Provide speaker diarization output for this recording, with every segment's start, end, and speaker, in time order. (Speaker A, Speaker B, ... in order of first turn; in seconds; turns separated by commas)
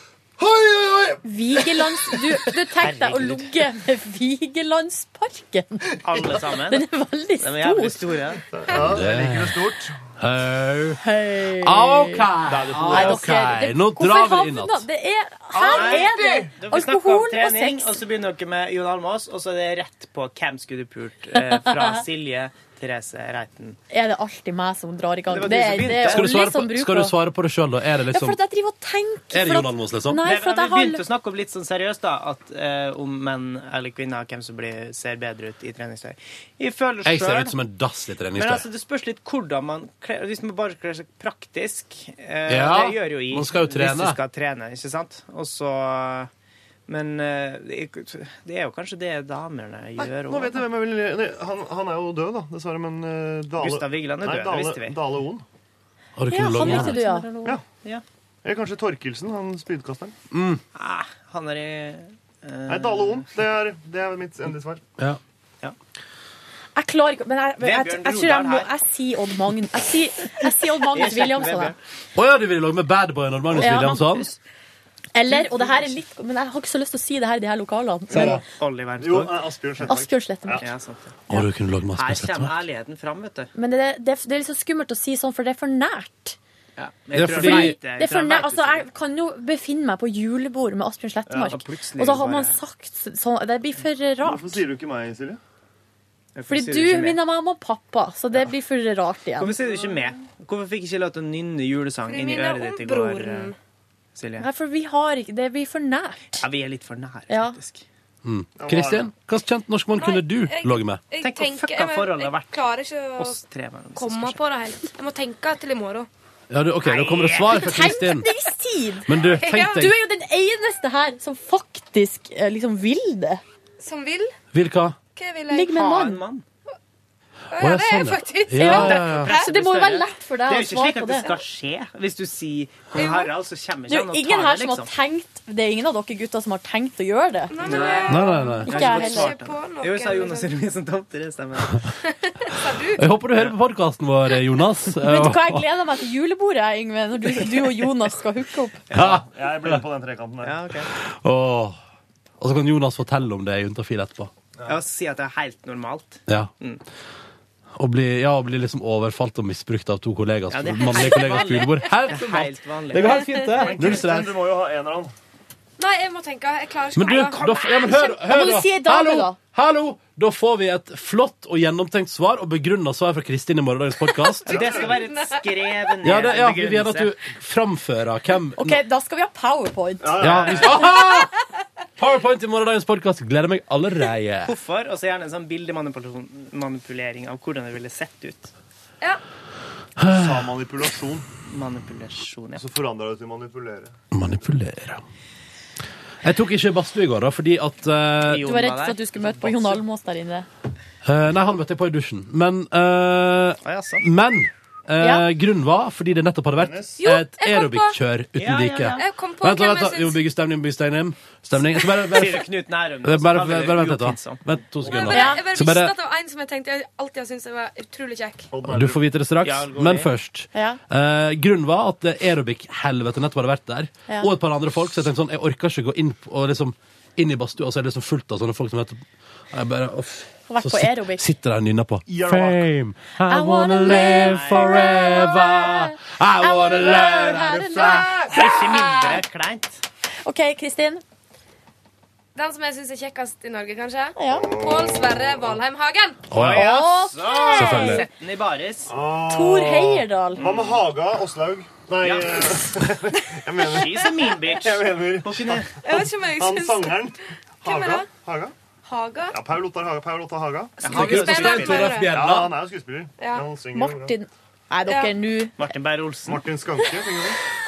Speaker A: 0.4-1.2, Speaker B: 1.2-6.0, Speaker C: 2.8-3.5, Speaker C: 6.0-6.9, Speaker B: 6.7-8.1, Speaker C: 7.4-8.4, Speaker A: 8.5-9.9, Speaker D: 8.7-9.6, Speaker D: 10.2-11.0, Speaker B: 11.0-12.3, Speaker D: 11.6-14.8, Speaker C: 12.5-13.4, Speaker B: 12.9-18.0, Speaker A: 15.5-16.5, Speaker C: 15.7-23.8, Speaker B: 21.4-22.0, Speaker B: 23.9-27.2, Speaker C: 25.3-26.3, Speaker D: 26.0-28.4, Speaker B: 28.1-31.0, Speaker D: 29.3-30.2, Speaker C: 30.2-37.5, Speaker D: 37.0-38.7, Speaker C: 38.4-46.3, Speaker D: 42.5-44.2, Speaker C: 46.9-50.6, Speaker A: 50.0-55.4, Speaker C: 53.6-55.0, Speaker D: 56.2-57.0, Speaker B: 56.3-57.3, Speaker C: 56.6-58.0, Speaker A: 58.4-60.1, Speaker D: 60.3-60.6, Speaker C: 60.8-63.3, Speaker A: 62.7-64.8, Speaker B: 66.8-71.7, Speaker C: 67.6-68.7, Speaker C: 70.8-71.8, Speaker D: 72.2-74.3, Speaker B: 73.6-74.1, Speaker B: 75.1-78.4, Speaker C: 75.3-75.9, Speaker A: 78.1-78.4, Speaker C: 78.2-80.0, Speaker A: 79.0-80.7, Speaker B: 79.9-80.6, Speaker C: 80.6-81.2, Speaker D: 81.3-82.5, Speaker C: 81.9-83.5, Speaker B: 83.5-86.4, Speaker C: 86.8-88.9, Speaker D: 87.2-87.8, Speaker B: 87.3-94.6, Speaker A: 91.3-91.6, Speaker C: 91.5-92.6, Speaker A: 94.2-95.4, Speaker C: 96.3-97.2, Speaker B: 96.5-99.6, Speaker C: 99.4-103.5, Speaker E: 102.1-103.6, Speaker C: 104.2-104.5, Speaker B: 104.4-106.4, Speaker C: 106.4-107.8, Speaker B: 107.3-107.6, Speaker D: 108.2-111.0, Speaker A: 108.6-109.1, Speaker E: 110.0-113.4, Speaker C: 111.2-112.6, Speaker C: 113.2-114.4, Speaker E: 114.0-116.1, Speaker D: 116.5-118.3, Speaker C: 116.8-117.6, Speaker B: 117.5-123.4, Speaker D: 119.1-120.0, Speaker E: 119.2-119.9, Speaker E: 123.8-124.3, Speaker D: 124.5-125.0, Speaker E: 125.2-125.8, Speaker B: 125.5-126.2, Speaker C: 125.7-126.5, Speaker E: 127.5-129.5, Speaker D: 127.6-129.3, Speaker B: 128.6-131.3, Speaker C: 128.6-134.9, Speaker E: 132.9-133.3, Speaker B: 133.9-139.4, Speaker E: 137.5-140.5, Speaker C: 137.6-141.8, Speaker D: 138.1-138.7, Speaker E: 142.0-143.1, Speaker D: 142.9-145.6, Speaker B: 145.0-148.8, Speaker C: 148.9-149.2, Speaker D: 148.9-149.2, Speaker A: 148.9-150.6, Speaker C: 150.4-150.9, Speaker D: 150.9-151.8, Speaker D: 152.4-154.3, Speaker C: 154.7-156.8, Speaker D: 157.8-164.3, Speaker C: 160.5-163.4, Speaker E: 163.2-163.5, Speaker A: 163.5-165.1, Speaker E: 165.8-168.0, Speaker D: 166.9-174.5, Speaker B: 167.8-169.4, Speaker A: 174.5-175.1, Speaker C: 174.5-177.1, Speaker E: 174.6-175.9, Speaker D: 176.0-178.8, Speaker B: 178.6-180.7, Speaker A: 180.0-180.9, Speaker D: 180.2-181.3, Speaker D: 182.0-184.6, Speaker C: 184.4-188.5, Speaker D: 190.0-190.5, Speaker A: 190.1-191.3, Speaker C: 191.5-192.6, Speaker A: 192.6-194.0, Speaker D: 194.1-195.0, Speaker D: 196.2-198.5, Speaker C: 198.3-199.8, Speaker B: 198.4-200.5, Speaker D: 201.0-212.5, Speaker C: 203.6-204.1, Speaker B: 205.0-205.3, Speaker A: 206.6-207.0, Speaker E: 207.0-208.0, Speaker C: 208.4-209.1, Speaker E: 208.9-210.2, Speaker C: 212.1-214.4, Speaker D: 213.0-215.9, Speaker E: 214.8-218.5, Speaker B: 215.1-215.4, Speaker A: 218.5-219.1, Speaker D: 218.7-238.3, Speaker C: 219.4-220.1, Speaker B: 220.5-220.8, Speaker B: 230.5-231.3, Speaker A: 232.1-232.7, Speaker B: 233.3-238.1, Speaker C: 234.0-234.8, Speaker C: 238.3-239.8, Speaker B: 240.2-241.0, Speaker E: 242.3-246.3, Speaker B: 244.2-244.6, Speaker A: 244.3-245.6, Speaker D: 246.3-246.7, Speaker C: 246.3-248.9, Speaker B: 246.5-248.1, Speaker D: 247.5-248.1, Speaker A: 248.9-258.5, Speaker B: 249.3-250.4, Speaker C: 250.4-250.9, Speaker C: 252.0-252.7, Speaker C: 253.7-255.8, Speaker E: 255.8-257.1, Speaker E: 257.6-258.1, Speaker E: 258.9-259.4, Speaker A: 259.3-261.0, Speaker C: 260.8-262.0, Speaker D: 260.9-262.6, Speaker E: 261.1-262.2, Speaker A: 261.9-264.1, Speaker E: 263.2-263.5, Speaker B: 263.7-265.6, Speaker E: 264.9-265.2, Speaker C: 265.6-266.4, Speaker A: 266.3-267.4